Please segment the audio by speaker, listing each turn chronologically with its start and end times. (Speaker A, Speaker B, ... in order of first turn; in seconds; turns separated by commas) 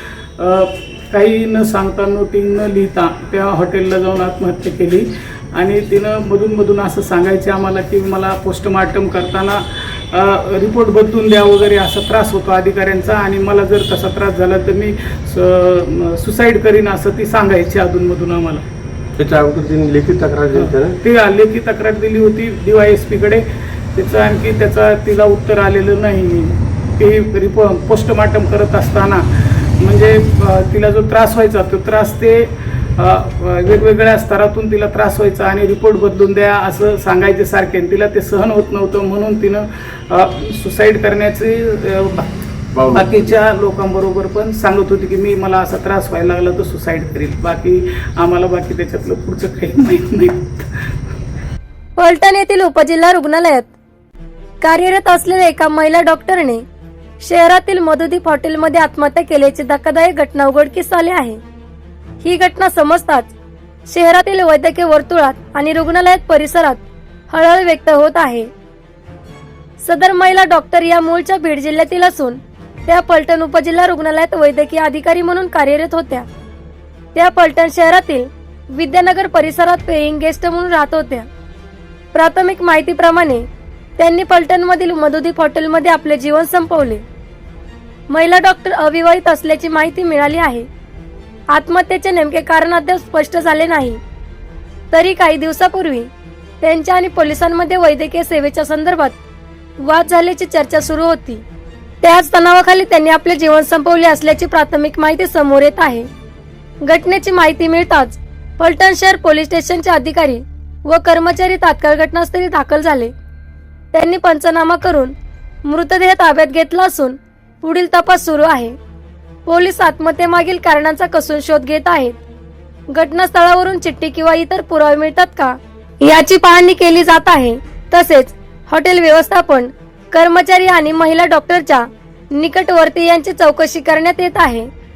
Speaker A: 0.4-18.6, Speaker B: 19.2-21.0, Speaker A: 20.5-23.4, Speaker A: 23.9-29.2, Speaker A: 29.8-42.4, Speaker B: 42.7-43.3, Speaker A: 42.9-50.7, Speaker C: 52.0-53.7, Speaker C: 54.6-56.6, Speaker C: 57.2-61.4, Speaker C: 62.2-63.3, Speaker C: 63.9-68.5, Speaker C: 69.8-76.3, Speaker C: 77.1-81.3, Speaker C: 82.1-83.5, Speaker C: 84.0-87.0, Speaker C: 88.1-90.7, Speaker C: 91.5-94.0, Speaker C: 94.9-96.1, Speaker C: 96.6-99.2, Speaker C: 99.8-101.4, Speaker C: 102.0-106.1, Speaker C: 106.8-113.1, Speaker C: 113.9-118.8, Speaker C: 119.5-122.2, Speaker C: 122.9-134.7